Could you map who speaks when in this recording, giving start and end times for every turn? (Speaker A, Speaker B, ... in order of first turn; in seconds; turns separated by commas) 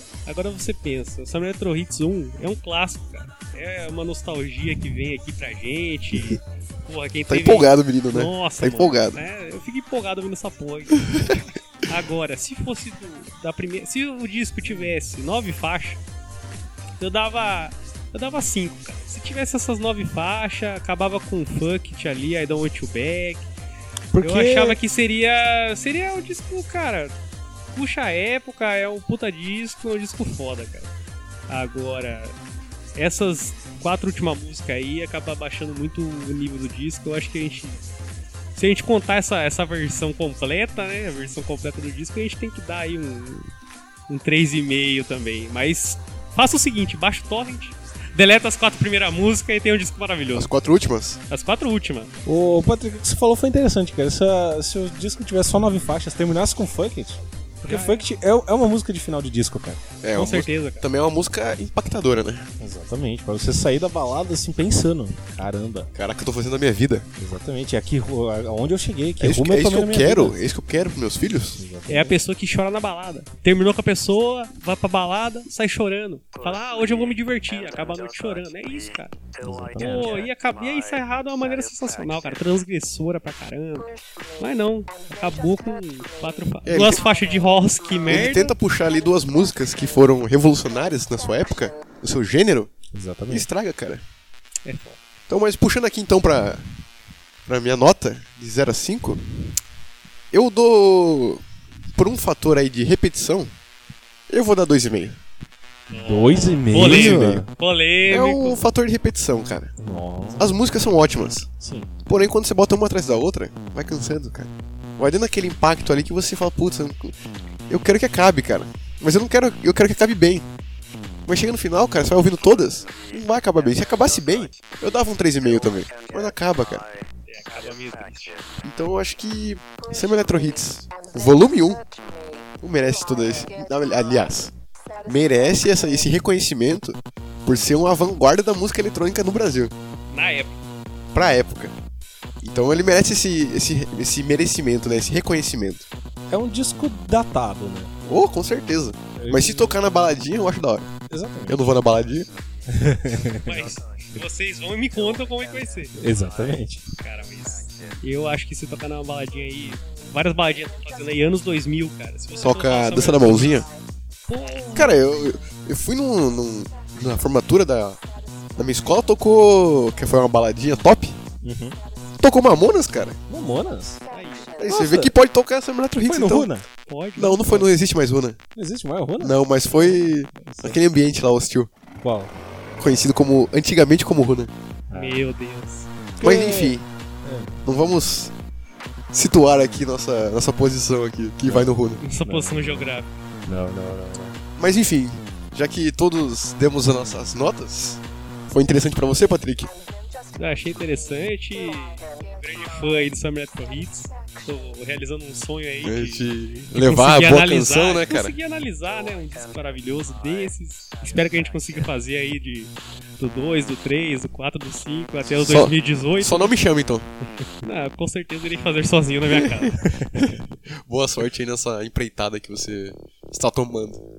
Speaker A: 0.3-11.1, Speaker B: 7.3-9.2, Speaker B: 11.1-11.4, Speaker A: 11.9-16.0, Speaker A: 17.0-23.5, Speaker C: 24.1-24.8, Speaker A: 24.2-27.1, Speaker A: 27.7-30.9, Speaker A: 31.5-32.4, Speaker A: 33.0-37.8, Speaker A: 38.6-43.5, Speaker A: 44.1-50.5, Speaker B: 50.3-51.2, Speaker A: 51.3-52.1, Speaker C: 52.2-59.8, Speaker A: 57.6-58.1, Speaker B: 60.0-62.5, Speaker A: 60.1-60.9, Speaker C: 62.6-65.9, Speaker B: 66.0-67.1, Speaker C: 67.2-70.4, Speaker B: 69.2-71.6, Speaker C: 71.5-72.2, Speaker A: 71.9-79.2, Speaker C: 79.4-80.2, Speaker A: 79.8-88.5, Speaker B: 86.7-87.0, Speaker B: 88.1-92.7, Speaker C: 92.9-93.5, Speaker B: 93.3-94.0, Speaker A: 94.7-95.0, Speaker B: 95.3-96.7, Speaker B: 97.5-99.2, Speaker B: 100.3-101.4, Speaker B: 102.0-103.5, Speaker B: 104.3-105.2, Speaker A: 105.9-108.7, Speaker C: 106.0-107.5, Speaker B: 106.7-107.4, Speaker B: 108.1-109.7, Speaker C: 109.8-110.5, Speaker B: 110.4-111.5, Speaker C: 111.6-111.9, Speaker B: 112.1-117.2, Speaker B: 117.7-120.5, Speaker B: 121.3-126.9, Speaker A: 127.3-128.4, Speaker B: 128.6-131.8, Speaker B: 132.6-139.7, Speaker A: 140.1-140.5, Speaker B: 141.1-141.7, Speaker B: 142.4-145.9, Speaker C: 146.3-147.9, Speaker B: 148.1-150.9, Speaker C: 149.2-149.8, Speaker C: 151.1-151.6, Speaker B: 151.5-152.3, Speaker C: 152.7-153.7, Speaker A: 153.4-155.9, Speaker C: 156.0-156.8, Speaker A: 157.0-163.7, Speaker B: 162.4-163.7, Speaker A: 164.3-164.8, Speaker C: 164.3-164.8, Speaker B: 164.8-168.0, Speaker B: 168.6-171.2, Speaker C: 171.4-171.8, Speaker B: 172.2-173.2, Speaker C: 173.3-174.0, Speaker A: 174.1-174.6, Speaker B: 174.6-176.5, Speaker C: 174.6-175.1, Speaker C: 176.1-176.7, Speaker A: 176.9-177.7, Speaker B: 177.2-178.4, Speaker C: 178.6-180.8, Speaker B: 179.2-181.7, Speaker C: 182.0-182.3, Speaker B: 182.8-184.5, Speaker C: 184.9-185.2, Speaker A: 184.9-185.9, Speaker C: 186.2-187.6, Speaker B: 186.2-186.9, Speaker B: 187.7-188.3, Speaker B: 189.1-192.0, Speaker C: 191.4-192.9, Speaker A: 192.0-193.1, Speaker C: 193.5-194.4, Speaker B: 194.6-199.7, Speaker A: 200.4-216.6, Speaker B: 205.8-208.3, Speaker B: 215.3-217.1, Speaker A: 217.6-219.8, Speaker B: 219.3-224.0, Speaker C: 219.9-220.2